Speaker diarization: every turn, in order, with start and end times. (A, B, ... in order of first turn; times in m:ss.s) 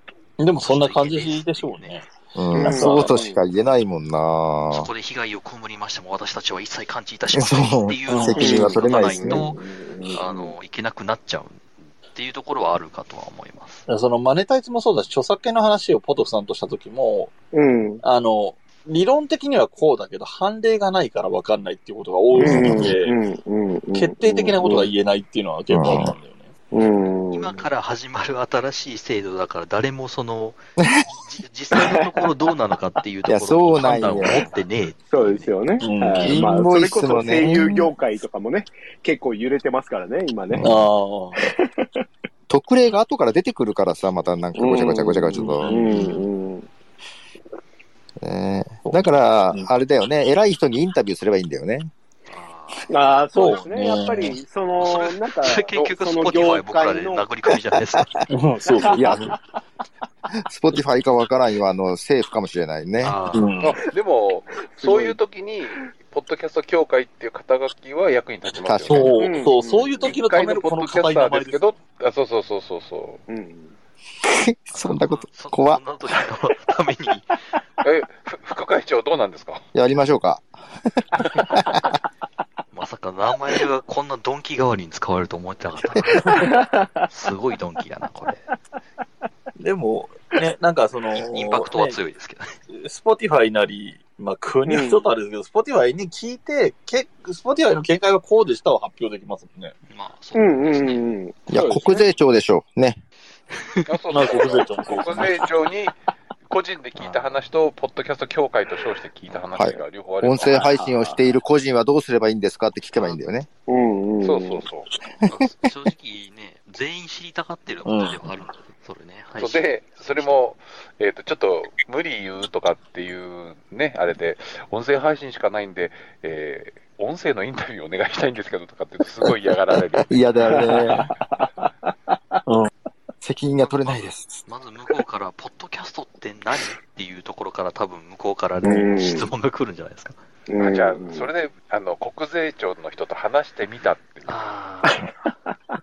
0:00.4-0:03.2 A
0:00.6-0:02.0 B
0:02.4-0:04.9 C
0:02.6-0:03.4 D
0:04.7-0:13.8 B
0:07.3-0:09.5 C
0:08.1-0:08.6 A
0:08.4-0:10.6 D
0:13.9-0:17.3 A
0:17.5-0:18.0 D
0:18.0-0:23.2 A
0:22.4-0:24.9 D
0:22.4-0:22.9 C
0:23.9-0:26.5 A
0:25.7-0:26.1 C
0:26.7-0:27.7 D
0:27.3-0:35.6 B
0:30.8-0:31.1 C
0:33.3-0:34.5 C
0:34.2-0:40.9 D
0:35.8-0:36.5 A
0:36.2-0:37.9 C
0:40.5-0:41.5 A
0:41.4-0:41.9 D
0:42.5-0:46.1 C
0:44.6-0:46.7 D
0:45.3-0:46.2 A
0:48.2-0:51.9 C
0:48.8-0:49.7 A
0:52.3-0:53.2 B
0:52.9-0:57.3 D
0:53.4-0:54.4 A
0:54.8-0:58.2 B
0:58.3-0:59.4 A
0:58.7-0:59.2 D
0:58.9-0:59.3 C
1:00.5-1:03.2 C
1:03.0-1:03.6 B
1:03.3-1:03.8 A
1:03.6-1:09.3 E
1:04.7-1:05.2 D
1:08.6-1:09.2 C
1:08.9-1:11.6 A
1:09.2-1:10.2 D
1:10.0-1:13.2 E
1:13.3-1:13.8 D
1:14.2-1:15.8 C
1:14.7-1:17.4 B
1:17.8-1:19.6 E
1:19.7-1:21.8 C
1:22.7-1:26.6 B
1:26.2-1:26.7 D
1:27.1-1:28.5 B
1:29.6-1:32.0 A
1:31.3-1:32.6 B
1:32.7-1:39.8 A
1:34.7-1:35.1 D
1:39.9-1:42.0 B
1:40.3-1:42.1 D
1:41.5-1:43.0 C
1:43.5-1:43.9 B
1:43.9-1:46.0 E
1:44.1-1:45.3 A
1:46.5-1:50.8 E
1:47.0-1:47.4 B
1:49.6-1:53.5 C
1:50.4-1:51.3 D
1:53.0-1:53.2 B
1:53.7-1:54.6 D
1:54.2-1:54.9 E
1:55.2-2:00.5 B
1:57.8-1:58.3 A
1:59.4-2:10.6 E
2:10.1-2:11.1 C
2:10.6-2:12.4 D
2:12.5-2:12.7 A
2:13.2-2:14.4 C
2:13.6-2:20.2 B
2:18.6-2:19.3 D
2:20.5-2:21.3 D
2:20.6-2:24.4 E
2:24.3-2:25.1 B